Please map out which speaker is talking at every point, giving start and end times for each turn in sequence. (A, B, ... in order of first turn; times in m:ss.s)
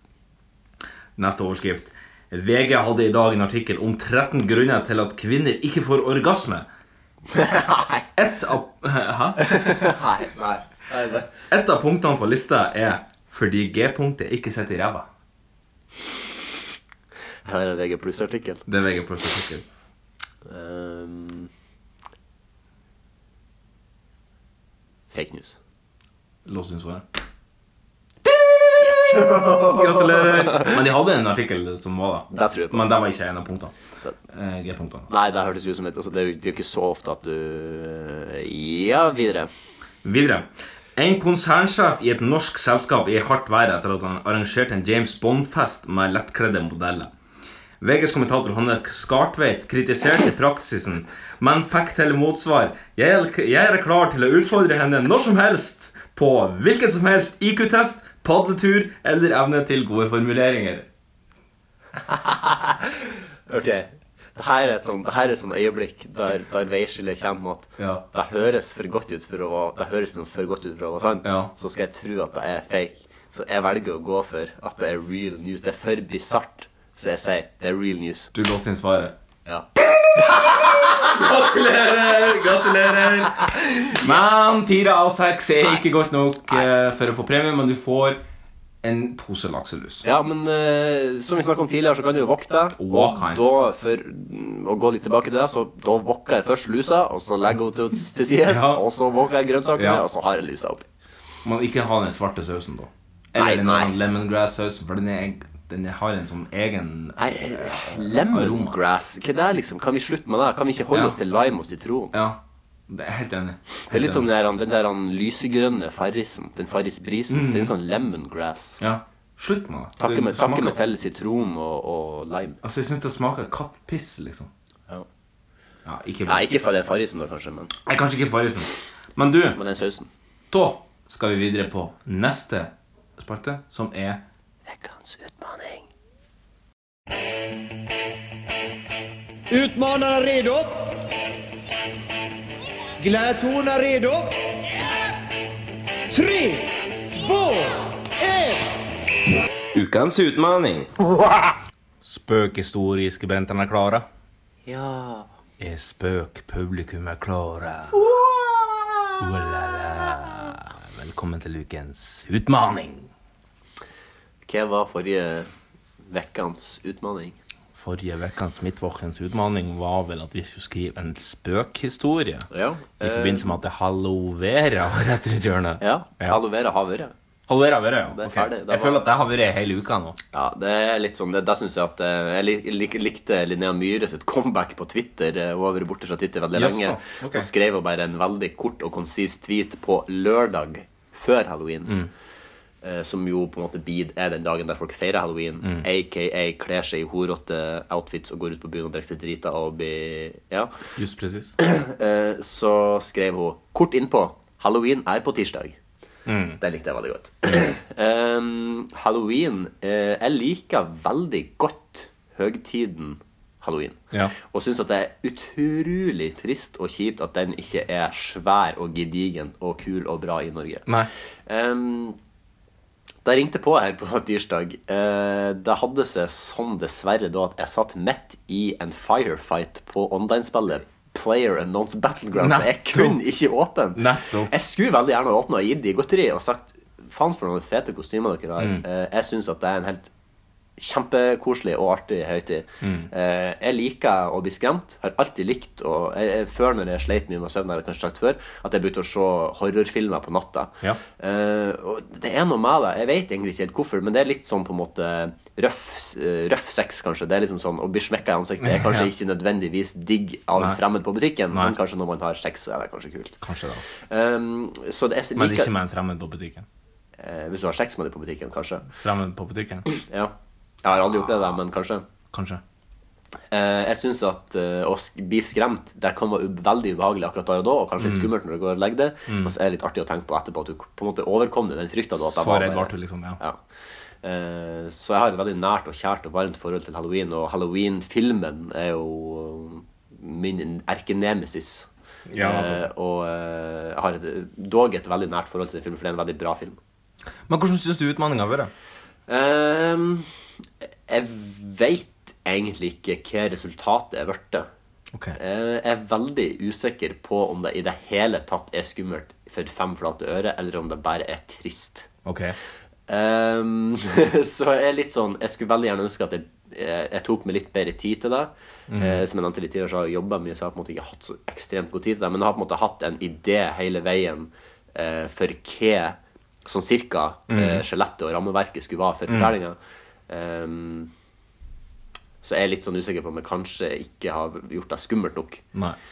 0:01.2-0:06.7 A
0:07.3-0:08.0 B
0:08.2-0:09.6 A
0:09.4-0:11.3 B
0:11.5-0:15.1 A
0:17.4-0:18.6 B
0:18.7-0:19.6 A
0:20.4-0:21.5 B
0:25.1-0:25.6 B
0:26.4-0:27.1 A
0:28.2-0:33.7 A
0:28.8-0:30.7 B
0:32.3-0:32.9 B
0:34.3-0:35.1 A
0:35.1-0:39.5 B
0:40.0-0:47.1 A
0:47.8-1:00.9 A
1:02.1-1:18.3 B
1:07.8-1:08.0 A
1:11.2-1:11.5 A
1:18.3-1:19.2 A
1:19.4-1:20.9 B
1:19.8-1:28.2 A
1:23.8-1:24.3 B
1:28.8-1:30.0 A
1:30.0-1:40.9 B
1:32.8-1:33.4 A
1:38.4-1:38.8 A
1:39.8-1:40.0 A
1:41.4-1:48.7 A
1:43.4-1:43.9 B
1:47.2-1:52.1 B
1:52.1-1:54.3 A
1:53.9-1:58.8 B
1:57.3-1:57.7 A
1:58.8-2:00.8 A
2:00.0-2:02.6 B
2:02.6-2:04.5 A
2:05.8-2:06.5 A
2:06.3-2:07.7 B
2:07.8-2:09.6 A
2:09.6-2:10.1 B
2:10.5-2:14.2 A
2:14.6-2:15.9 B
2:19.5-2:21.0 C
2:23.0-2:24.4 C
2:26.1-2:28.7 C
2:29.7-2:30.9 A
2:32.0-2:34.0 A
2:34.6-2:35.3 B
2:35.6-2:38.0 A
2:38.0-2:39.1 B
2:39.2-2:43.1 A
2:44.4-2:45.5 B
2:46.1-2:47.4 B
2:47.7-2:52.5 A
2:52.5-2:53.5 B
2:53.0-2:56.4 A
2:55.8-2:57.1 B
2:57.5-3:00.2 A
2:58.1-2:59.0 B
3:00.3-3:12.0 B
3:06.5-3:07.5 A
3:12.8-3:20.7 B
3:21.0-3:21.6 A
3:21.6-3:25.8 B
3:26.2-3:26.6 A
3:26.6-3:40.9 B
3:41.5-3:42.2 B
3:43.2-4:00.1 B
3:52.4-3:53.2 A
3:54.0-3:54.5 A
4:00.8-4:23.4 B
4:02.8-4:03.1 A
4:18.6-4:19.1 A
4:23.4-4:23.8 A
4:24.0-4:25.7 B
4:25.4-4:26.6 A
4:27.2-4:28.9 B
4:28.9-4:29.9 A
4:29.9-4:32.0 B
4:32.3-4:32.6 A
4:33.5-4:43.6 B
4:38.0-4:38.3 A
4:39.3-4:39.5 A
4:42.2-4:43.4 A
4:44.2-4:51.9 B
4:52.3-4:52.8 A
4:52.4-4:56.8 B
4:57.5-4:58.7 A
4:59.3-5:00.3 B
5:01.1-5:04.7 B
5:05.3-5:12.1 B
5:12.2-5:12.6 A
5:13.1-5:29.8 B
5:18.9-5:19.2 A
5:27.5-5:27.8 A
5:30.3-5:31.1 B
5:32.4-5:35.6 B